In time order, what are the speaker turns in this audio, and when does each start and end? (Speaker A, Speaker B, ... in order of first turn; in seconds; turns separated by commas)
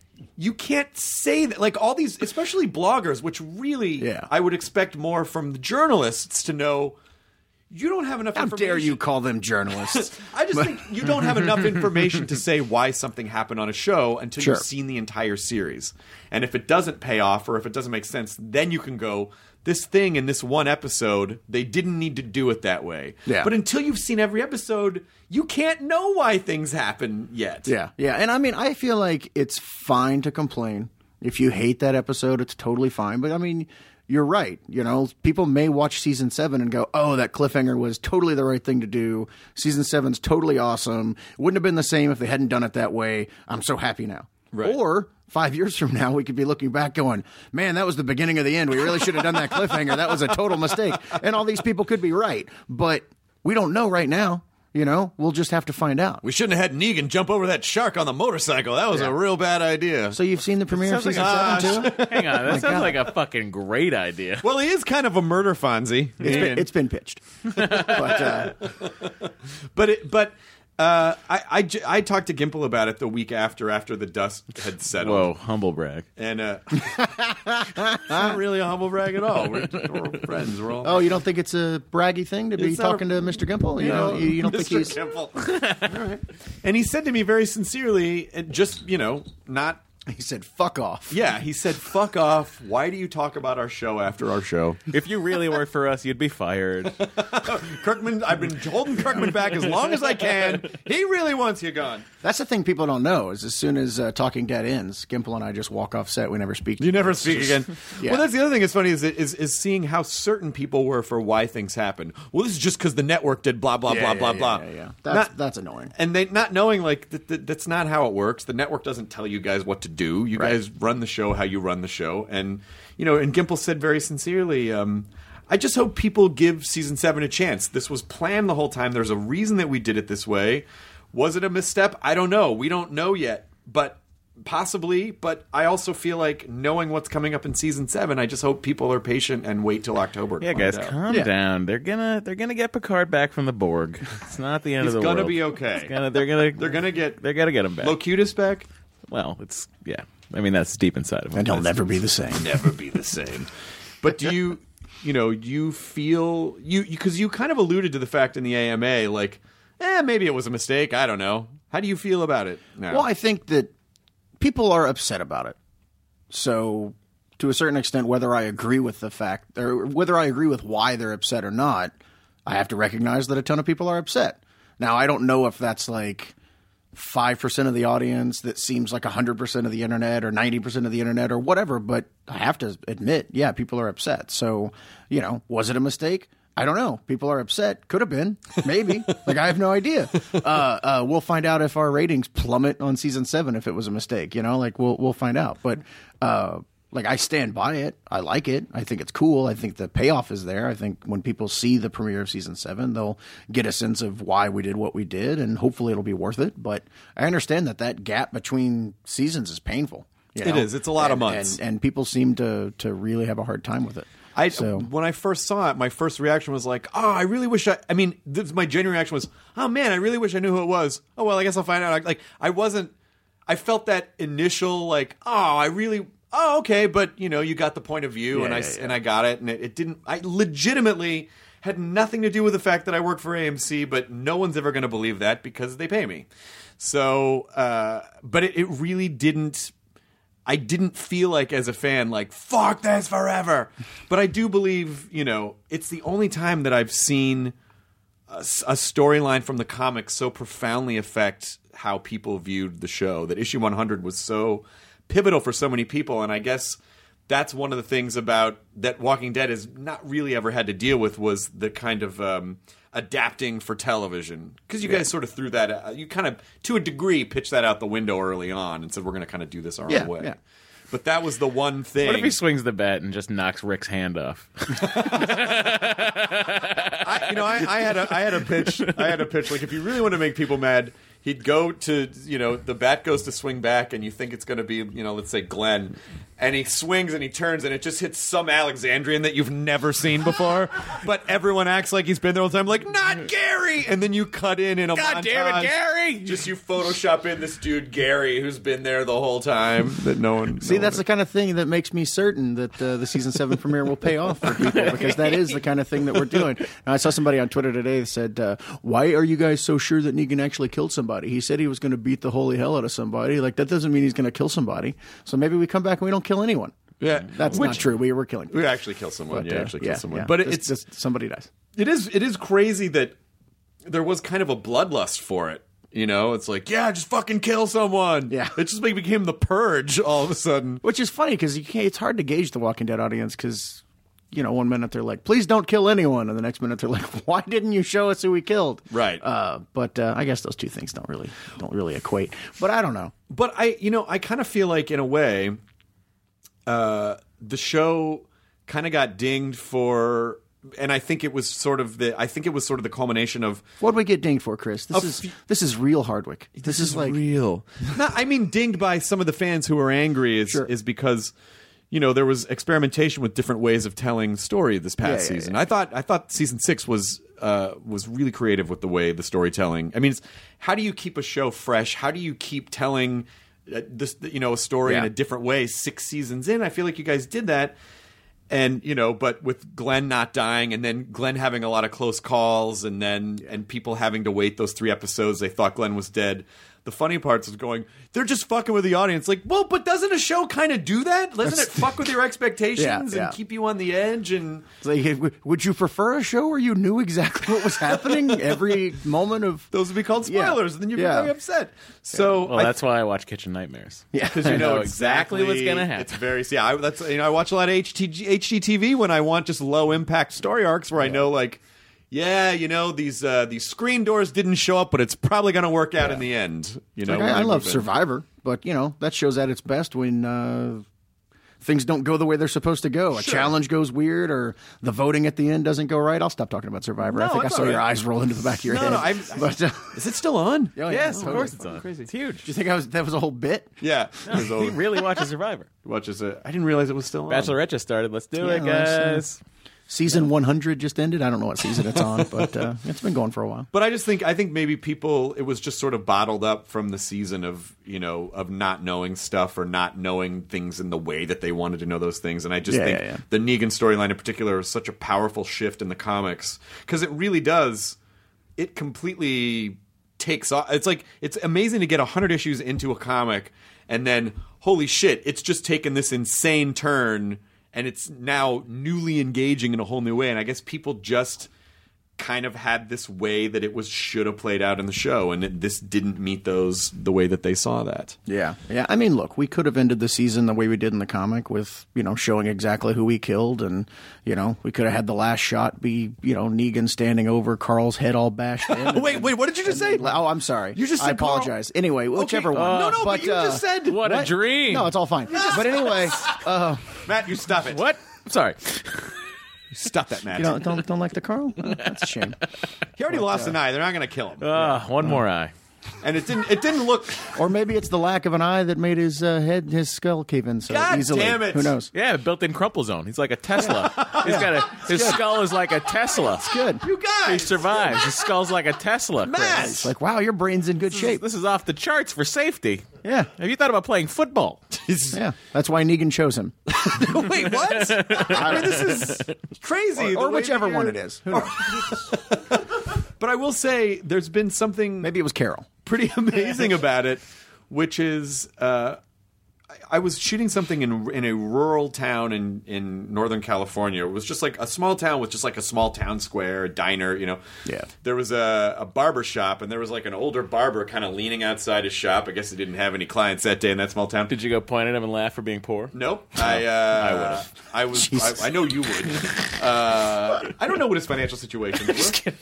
Speaker A: 0.4-7.0, Speaker B: 4.0-4.3, Speaker A: 7.7-9.0, Speaker B: 8.3-11.5, Speaker A: 9.9-27.7, Speaker B: 14.4-14.7, Speaker B: 23.3-23.5, Speaker B: 27.7-56.2, Speaker A: 44.5-44.8, Speaker A: 56.2-60.2, Speaker B: 60.1-63.0, Speaker C: 60.7-64.5, Speaker A: 61.1-62.9, Speaker A: 64.4-66.7, Speaker B: 66.2-68.6, Speaker C: 67.6-68.0, Speaker A: 67.6-75.3, Speaker C: 75.0-76.1, Speaker A: 76.2-81.0, Speaker B: 77.0-78.4, Speaker B: 80.8-85.0, Speaker A: 82.6-89.8, Speaker C: 85.4-85.9, Speaker B: 90.1-91.2, Speaker A: 91.1-94.9, Speaker C: 94.9-97.0, Speaker A: 97.0-102.1, Speaker B: 99.0-99.3, Speaker B: 102.2-108.2, Speaker A: 106.8-115.3, Speaker B: 113.9-115.9, Speaker A: 116.0-140.9, Speaker C: 140.4-148.0, Speaker A: 144.8-147.2, Speaker A: 147.8-148.7, Speaker C: 149.1-151.8, Speaker B: 151.3-152.5, Speaker A: 152.4-153.5, Speaker A: 154.0-163.1, Speaker B: 162.9-163.7, Speaker B: 164.4-165.6, Speaker B: 166.3-171.9, Speaker B: 172.5-176.3, Speaker B: 176.9-214.9, Speaker A: 210.4-211.6, Speaker A: 214.3-222.9, Speaker A: 223.5-236.3, Speaker B: 228.3-229.0, Speaker A: 236.8-239.7, Speaker A: 240.5-247.6, Speaker A: 248.3-270.4, Speaker B: 269.9-270.4, Speaker A: 270.9-272.4, Speaker C: 272.0-279.2, Speaker A: 274.9-275.7, Speaker A: 277.0-301.0, Speaker C: 294.9-296.5, Speaker B: 300.6-316.8, Speaker C: 304.8-305.3, Speaker A: 317.0-317.9, Speaker B: 317.4-318.7, Speaker A: 318.5-320.7, Speaker B: 319.3-321.5, Speaker A: 321.8-323.2, Speaker A: 323.9-330.8, Speaker B: 328.3-328.6, Speaker B: 330.8-343.1, Speaker A: 338.9-339.2, Speaker A: 343.3-345.6, Speaker A: 346.7-353.6, Speaker B: 353.8-357.2, Speaker A: 354.9-355.2, Speaker A: 356.6-361.3, Speaker A: 361.9-377.8, Speaker B: 365.0-365.6, Speaker A: 378.5-394.7, Speaker B: 391.5-391.8, Speaker B: 392.8-393.4, Speaker B: 394.8-399.7, Speaker A: 399.7-402.7, Speaker B: 400.2-401.3, Speaker B: 402.1-402.6, Speaker C: 402.4-406.2, Speaker B: 404.1-404.8, Speaker A: 404.3-417.8, Speaker B: 417.0-420.9, Speaker B: 421.6-430.0, Speaker A: 423.1-423.5, Speaker A: 427.0-427.9, Speaker A: 428.7-432.1, Speaker B: 430.8-431.6, Speaker C: 430.9-432.5, Speaker B: 432.4-433.7, Speaker A: 433.8-435.3, Speaker C: 434.3-435.7, Speaker A: 435.8-437.6, Speaker C: 437.3-439.4, Speaker B: 438.4-439.3, Speaker B: 439.9-443.7, Speaker A: 443.7-458.0, Speaker B: 452.7-453.2, Speaker A: 458.6-471.5, Speaker A: 472.2-478.2, Speaker B: 478.3-497.0, Speaker A: 488.8-490.2, Speaker A: 490.7-491.6, Speaker A: 492.1-494.1, Speaker C: 492.5-493.1, Speaker C: 493.9-494.9, Speaker A: 497.0-497.9, Speaker C: 497.7-499.2, Speaker A: 499.7-500.7, Speaker B: 500.3-502.4, Speaker A: 503.0-504.7, Speaker B: 503.1-503.6, Speaker C: 504.4-505.5, Speaker B: 504.6-505.2, Speaker A: 506.0-507.4, Speaker B: 507.3-511.9, Speaker A: 510.7-511.8, Speaker C: 511.9-516.5, Speaker A: 513.6-514.5, Speaker B: 513.6-515.2, Speaker B: 516.4-516.8, Speaker A: 516.8-518.3, Speaker C: 517.2-519.8, Speaker A: 519.2-519.9, Speaker B: 519.5-521.2, Speaker C: 520.9-522.9, Speaker B: 523.0-523.3, Speaker C: 523.4-524.6, Speaker A: 524.8-525.2, Speaker B: 525.1-526.9, Speaker A: 526.7-535.1, Speaker C: 527.5-529.3, Speaker B: 528.3-529.0, Speaker B: 530.0-532.1, Speaker B: 535.0-535.7, Speaker A: 535.9-539.0, Speaker A: 539.9-547.4, Speaker A: 548.0-554.3, Speaker C: 554.3-557.4, Speaker A: 555.9-562.2, Speaker B: 558.0-558.4